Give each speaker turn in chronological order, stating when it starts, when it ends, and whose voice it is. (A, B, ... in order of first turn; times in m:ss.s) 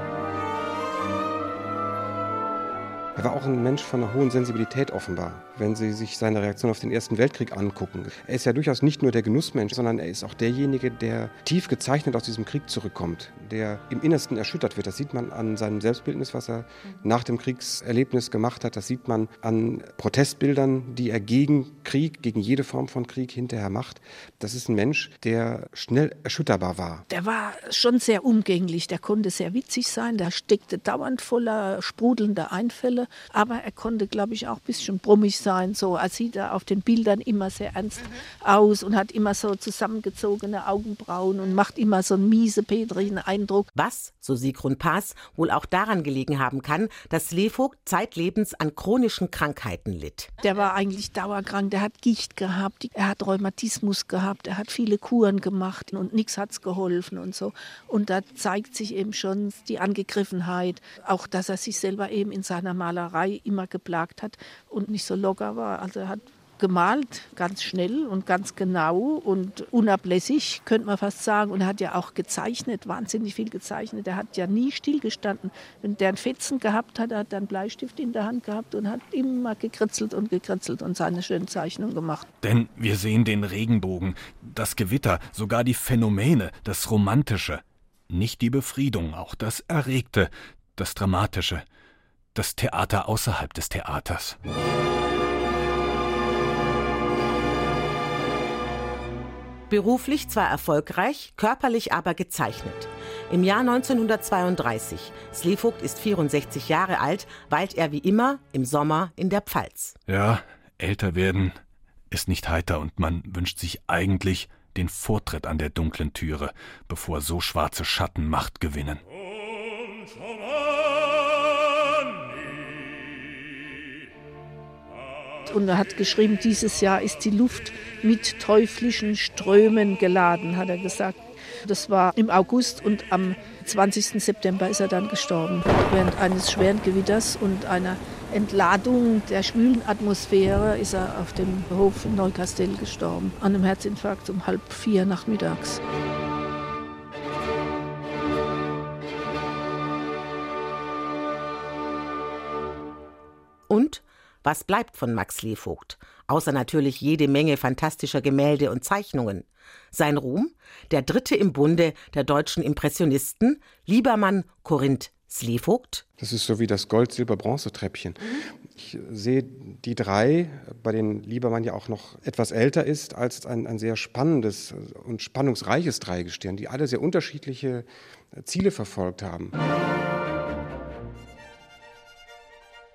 0:03.2-0:27.0 A
0:27.1-0:43.7 B
0:43.8-0:50.3 C
0:50.4-1:22.3 B
1:22.4-1:31.6 D
1:32.4-1:34.4 D
1:39.7-1:50.0 C
1:50.1-1:51.6 D
1:52.1-1:59.0 D
2:05.5-2:25.8 B
2:33.7-2:46.0 C
2:46.2-2:59.6 A